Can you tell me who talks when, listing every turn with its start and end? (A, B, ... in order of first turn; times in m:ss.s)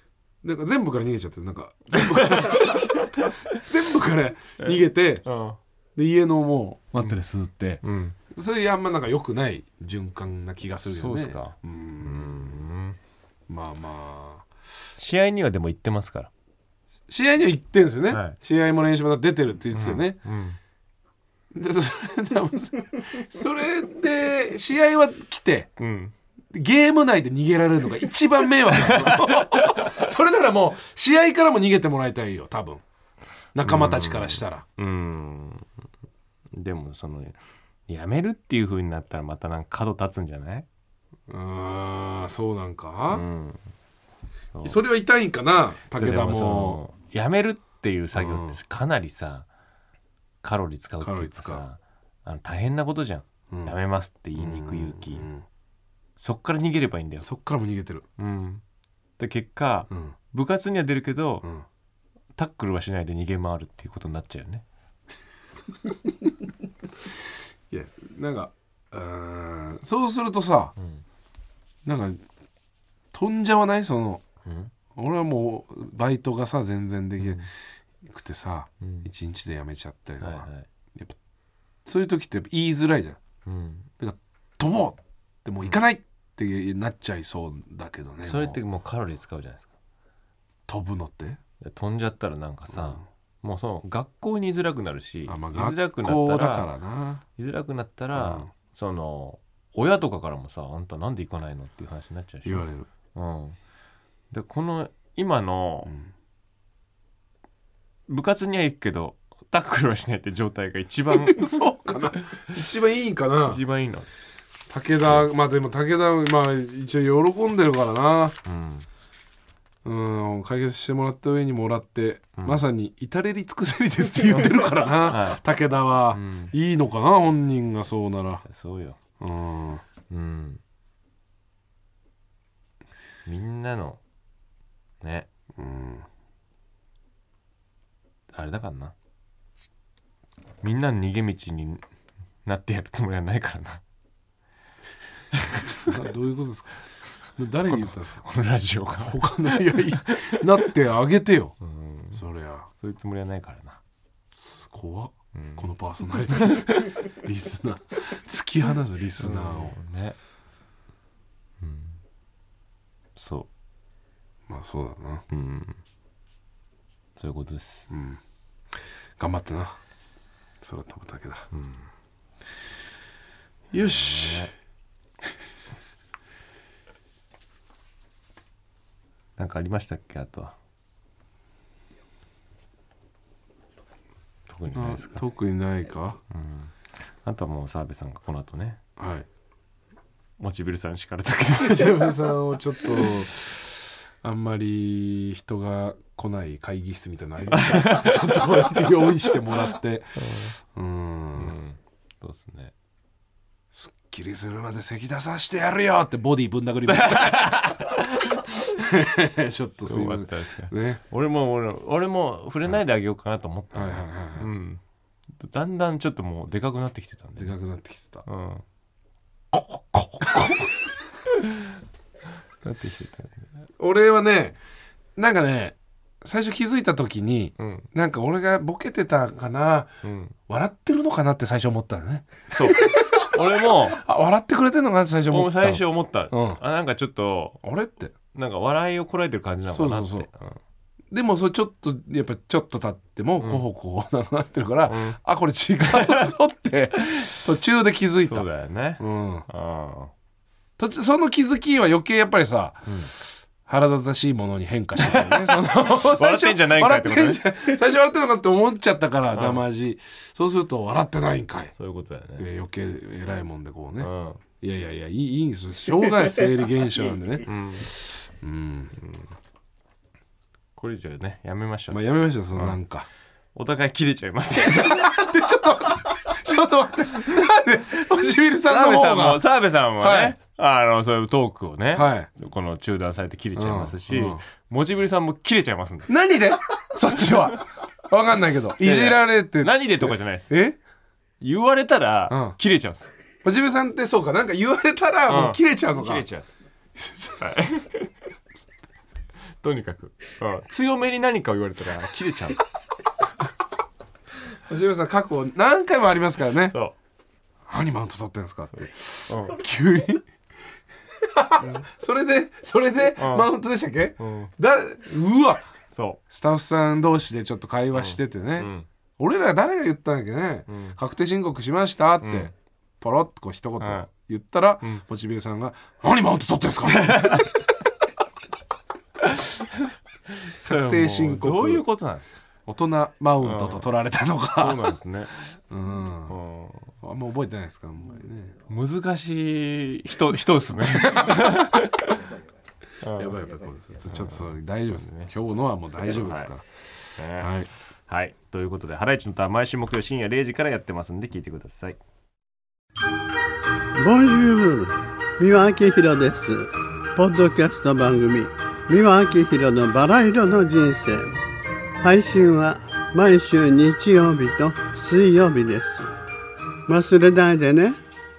0:00.4-0:05.2 A
0:02.3-0:03.2 B
0:04.6-0:05.6 B
0:06.0-0:12.5 A
0:07.8-0:08.2 B
0:10.8-0:13.0 B
0:13.5-0:14.5 A
0:15.0-0:16.3 B
0:17.1-0:20.2 A
0:18.1-0:18.4 B
0:19.7-0:20.6 B
0:21.5-0:25.7 A
0:25.8-0:26.1 B
0:26.5-0:32.8 A
0:28.7-0:29.8 B
0:33.5-0:34.6 A
0:33.6-0:35.7 B
0:36.5-0:40.7 B
0:41.3-0:43.2 A
0:43.1-0:43.7 B
0:44.5-0:44.8 B
0:44.6-0:46.8 A
0:45.9-0:49.5 B
0:48.1-0:48.6 A
0:50.4-0:55.3 B
0:51.0-0:51.6 A
0:53.5-0:53.8 A
0:54.4-0:55.4 A
0:56.2-0:57.3 B
0:57.2-0:58.0 A
0:58.2-0:58.6 B
0:59.2-1:01.5 B
1:02.3-1:04.6 B
1:07.7-1:10.7 A
1:10.8-1:11.0 B
1:11.8-1:12.2 A
1:13.1-1:14.2 A
1:14.4-1:14.7 B
1:14.9-1:17.5 A
1:17.2-1:17.5 B
1:18.0-1:21.1 A
1:18.8-1:19.1 B
1:20.2-1:20.7 B
1:21.8-1:23.2 A
1:23.4-1:23.9 B
1:24.0-1:28.6 A
1:28.2-1:29.7 B
1:30.7-1:31.4 A
1:31.6-1:36.7 B
1:32.7-1:33.0 A
1:35.2-1:37.2 A
1:37.4-1:43.6 B
1:38.1-1:38.5 A
1:42.4-1:42.9 A
1:44.3-1:45.9 B
1:45.8-1:46.1 A
1:48.1-1:52.4 B
1:51.1-1:53.6 A
1:53.4-1:54.1 B
1:54.7-1:58.4 A
1:58.4-1:58.9 B
1:59.8-2:08.4 A
2:02.4-2:02.6 B
2:04.9-2:05.4 B
2:06.1-2:06.5 B
2:08.4-2:09.0 B
2:09.2-2:09.8 A
2:10.1-2:10.6 B
2:13.2-2:14.0 B
2:15.0-2:15.3 B
2:15.6-2:16.0 A
2:18.3-2:18.9 B
2:20.6-2:21.8 B
2:22.4-2:23.8 B
2:25.3-2:25.6 B
2:25.5-2:26.8 A
2:27.4-2:28.3 A
2:27.7-2:30.7 B
2:29.0-2:31.6 A
2:31.6-2:32.2 B
2:32.1-2:32.7 A
2:32.8-2:33.8 B
2:34.3-2:39.8 A
2:35.3-2:35.7 B
2:36.5-2:36.9 B
2:39.2-2:40.2 B
2:41.6-2:42.0 B
2:43.2-2:43.5 B
2:44.5-2:45.2 A
2:45.3-2:45.8 B
2:47.2-2:47.9 B
2:47.9-2:48.2 A
2:49.2-2:49.8 A
2:50.6-2:51.5 A
2:51.5-2:51.9 B
2:53.7-2:54.5 A
2:53.7-2:54.5 B
2:59.4-3:00.6 B
3:04.5-3:05.2 B
3:04.7-3:06.2 A
3:06.3-3:08.8 B
3:09.0-3:09.3 A
3:10.4-3:12.1 B
3:11.6-3:21.6 A
3:17.5-3:18.9 B
3:19.5-3:20.6 B
3:21.4-3:22.7 B
3:23.7-3:28.0 A
3:26.9-3:28.8 B
3:28.8-3:31.0 A
3:29.8-3:34.8 B
3:33.7-3:34.5 A
3:35.3-3:37.6 B
3:37.4-3:38.2 A
3:38.2-3:38.6 B
3:39.5-3:40.7 B
3:41.4-3:41.7 B
3:42.6-3:43.5 B
3:43.8-3:44.6 A
3:45.2-3:49.9 A
3:47.6-3:47.9 B
3:50.0-3:50.4 B
3:50.5-3:56.6 A
3:52.5-3:54.0 B
3:55.3-3:57.6 B
3:57.6-3:58.1 A
3:58.3-4:00.6 B
3:59.7-4:00.3 A
4:01.1-4:08.4 A
4:03.4-4:03.6 B
4:04.8-4:05.2 B
4:08.2-4:10.1 B
4:09.0-4:09.5 A
4:10.8-4:13.0 A
4:12.8-4:13.1 B
4:13.6-4:21.7 A
4:15.0-4:17.4 B
4:19.3-4:19.6 B
4:21.7-4:22.5 B
4:22.4-4:28.9 A
4:24.0-4:24.4 B
4:27.4-4:27.9 B
4:28.9-4:29.3 B
4:30.8-4:32.0 B
4:31.9-4:33.1 A
4:33.5-4:35.0 B
4:34.5-4:39.4 A
4:38.6-4:46.1 B
4:40.0-4:40.4 A
4:41.9-4:42.3 A
4:43.5-4:44.4 A
4:46.1-4:50.8 A
4:48.8-4:50.6 B
4:51.4-4:53.1 B
4:52.3-4:52.6 A
4:53.4-4:56.2 A
4:55.2-4:56.7 B
4:57.0-4:57.6 A
4:57.4-4:58.1 B
4:59.6-5:02.6 B
5:04.5-5:06.8 A
5:06.7-5:07.0 B
5:07.7-5:10.2 A
5:08.7-5:09.6 B
5:11.4-5:15.7 A
5:13.1-5:13.5 B
5:14.2-5:14.5 B
5:15.9-5:16.2 B
5:16.3-5:27.5 A
5:17.9-5:18.9 B
5:20.7-5:21.0 B
5:22.2-5:22.5 B
5:23.8-5:24.1 B
5:26.9-5:27.5 B
5:29.3-5:29.6 B
5:30.4-5:32.2 B
5:30.6-5:31.8 A
5:32.7-5:34.9 A
5:33.4-5:33.9 B
5:34.5-5:35.4 B
5:35.7-5:36.4 A
5:36.3-5:37.0 B
5:37.0-5:38.6 A
5:38.7-5:42.2 B
5:41.0-5:41.6 A
5:43.0-5:43.4 B
5:43.1-5:46.6 A
5:44.0-5:45.3 B
5:46.0-5:46.5 B
5:47.2-5:52.0 B
5:47.3-5:47.7 A
5:54.0-6:01.4 C
6:02.0-6:06.1 C
6:06.9-6:08.0 C